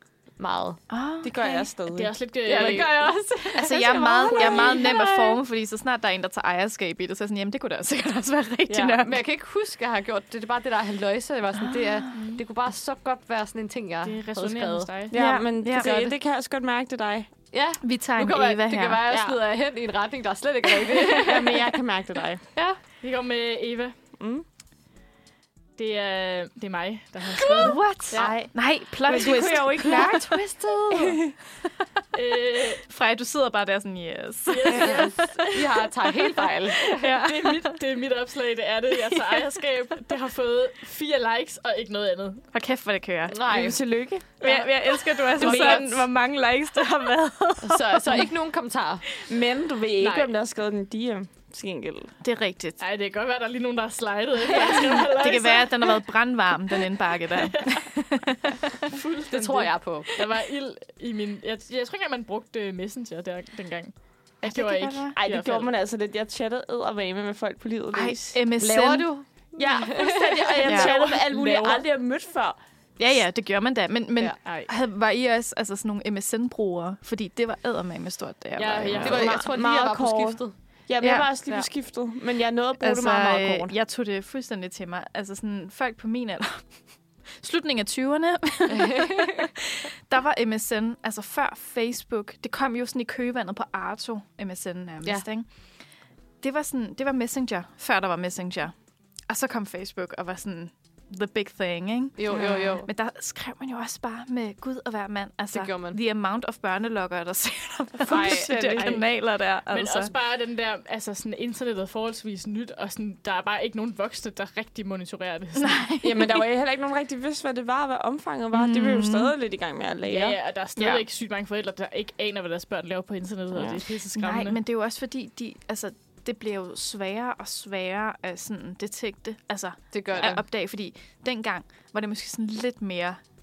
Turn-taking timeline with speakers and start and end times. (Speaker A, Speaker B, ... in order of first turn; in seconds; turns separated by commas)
Speaker A: 0.4-0.8, Speaker B: 0.9-1.7, Speaker C: 1.2-5.2, Speaker D: 1.9-3.1, Speaker A: 2.4-5.3, Speaker B: 3.5-9.1, Speaker C: 8.7-9.0, Speaker A: 9.0-15.1, Speaker B: 11.6-12.2, Speaker D: 14.0-15.1, Speaker C: 15.1-17.3, Speaker B: 15.1-15.9, Speaker A: 15.7-16.1, Speaker A: 17.5-21.6, Speaker B: 17.8-19.0, Speaker C: 19.1-19.4, Speaker C: 21.2-22.4, Speaker D: 23.0-23.9, Speaker C: 24.2-24.4, Speaker D: 25.8-27.8, Speaker B: 27.6-30.5, Speaker A: 28.1-28.4, Speaker C: 28.1-31.3, Speaker A: 29.8-31.2, Speaker D: 32.1-32.8, Speaker B: 32.8-35.5, Speaker D: 34.5-35.6, Speaker A: 34.8-37.0, Speaker D: 36.9-42.4, Speaker B: 37.0-37.7, Speaker B: 39.1-39.4, Speaker B: 42.5-43.4, Speaker A: 43.3-43.8, Speaker C: 43.5-44.3, Speaker B: 44.4-48.3, Speaker D: 45.2-45.9, Speaker C: 45.4-46.0, Speaker A: 45.4-45.8, Speaker A: 47.6-49.0, Speaker C: 49.2-52.1, Speaker D: 50.0-50.3, Speaker B: 52.2-52.8, Speaker D: 52.8-56.0, Speaker B: 54.7-58.4, Speaker D: 57.4-57.8, Speaker D: 58.8-65.7, Speaker A: 59.3-60.1, Speaker B: 64.4-65.2, Speaker C: 65.1-68.4, Speaker B: 67.9-69.1, Speaker A: 68.6-71.0, Speaker C: 69.5-72.6, Speaker B: 70.7-70.9, Speaker D: 70.8-71.8, Speaker B: 73.0-79.5, Speaker D: 74.4-74.7, Speaker D: 78.6-79.4, Speaker A: 79.0-80.5, Speaker C: 79.0-83.7, Speaker B: 81.0-81.7, Speaker B: 82.8-86.8, Speaker B: 87.4-95.5, Speaker A: 88.7-89.2, Speaker B: 96.4-98.7, Speaker B: 99.3-110.1, Speaker A: 102.2-102.9, Speaker C: 102.3-102.7, Speaker A: 105.5-106.0, Speaker C: 108.1-109.0, Speaker A: 108.1-109.0, Speaker D: 109.7-115.8, Speaker B: 115.6-116.3, Speaker C: 116.0-120.4, Speaker B: 118.5-119.3, Speaker D: 120.0-124.6, Speaker B: 120.8-121.0, Speaker C: 123.5-123.8, Speaker B: 124.1-133.2, Speaker A: 129.9-130.4